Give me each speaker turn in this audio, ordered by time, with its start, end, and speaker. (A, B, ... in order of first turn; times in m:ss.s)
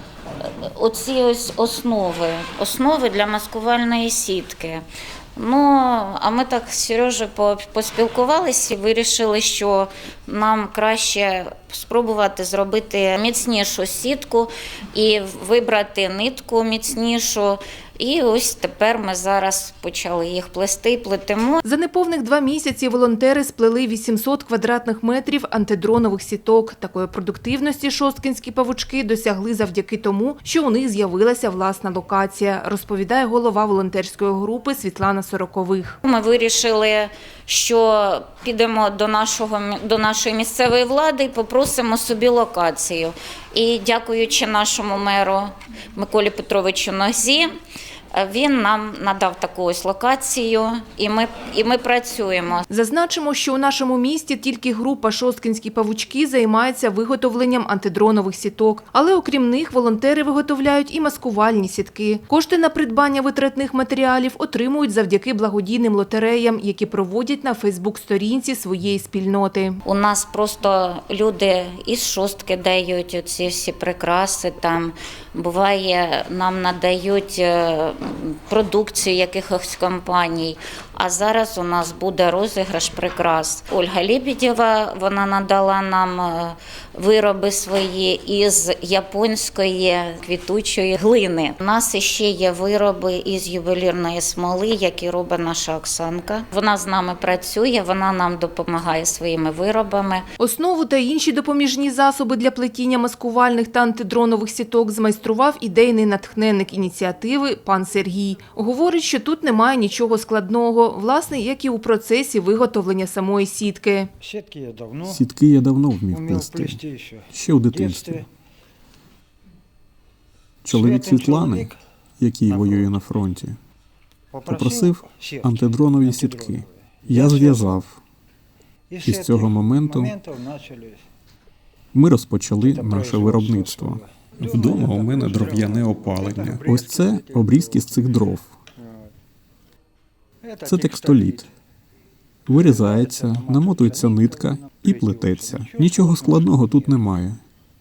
0:00.4-0:04.8 A
0:05.4-0:21.6 A
0:21.6-0:36.0 B
0:36.0-0:47.5 A
0:48.1-0:52.7 A
0:52.7-1:09.8 B
1:09.8-1:40.2 A
1:40.4-1:54.1 B
1:54.2-1:55.2 C
1:55.1-1:56.8 D
1:56.1-1:58.2 C
1:57.3-1:58.3 D
2:00.6-2:03.6 D
2:00.7-2:01.8 C
2:02.5-2:02.9 C
2:04.3-2:07.8 C
2:04.5-2:08.0 D
2:08.9-2:11.0 C
2:09.0-2:10.2 D
2:11.9-2:18.5 D
2:12.6-2:18.0 C
2:20.4-2:21.5 C
2:20.6-2:21.5 D
2:22.5-2:27.4 D
2:22.5-2:27.0 C